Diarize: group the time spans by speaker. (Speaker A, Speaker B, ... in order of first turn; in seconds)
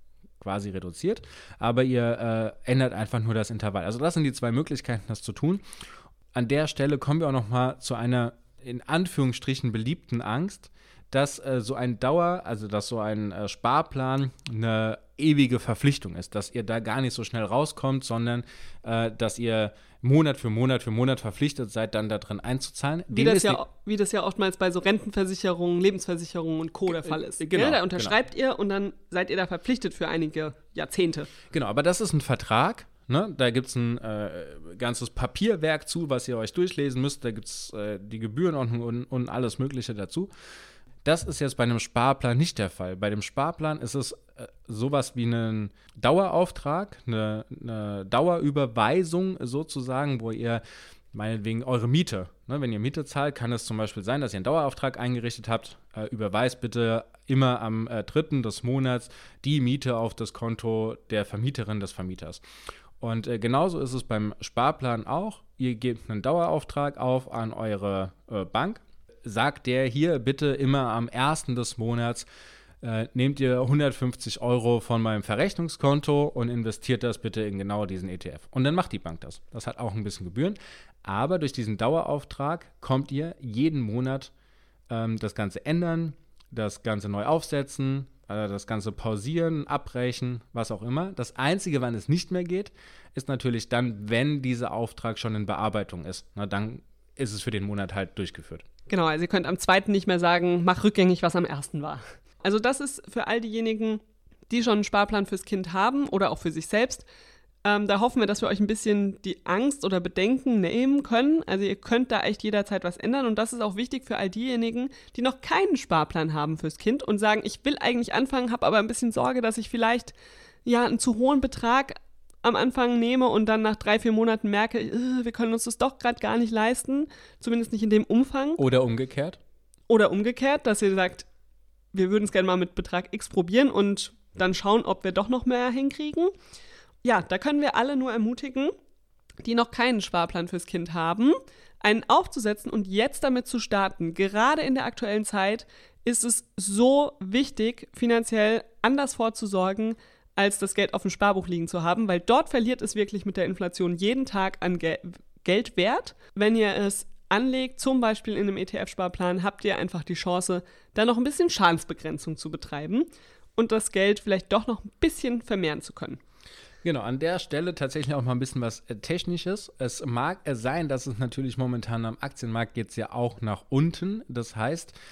Speaker A: 0.4-5.6, 6.3-23.6, 27.4-28.1, 31.5-40.3, 41.0-50.6, 51.1-62.4, 63.0-72.3, 72.8-84.3, 84.9-98.7, 128.6-129.4, 166.8-174.9
Speaker B: 23.1-31.3, 98.9-107.1, 107.6-120.1, 120.7-128.6, 129.9-131.3, 131.9-136.3, 137.0-138.7, 139.4-166.2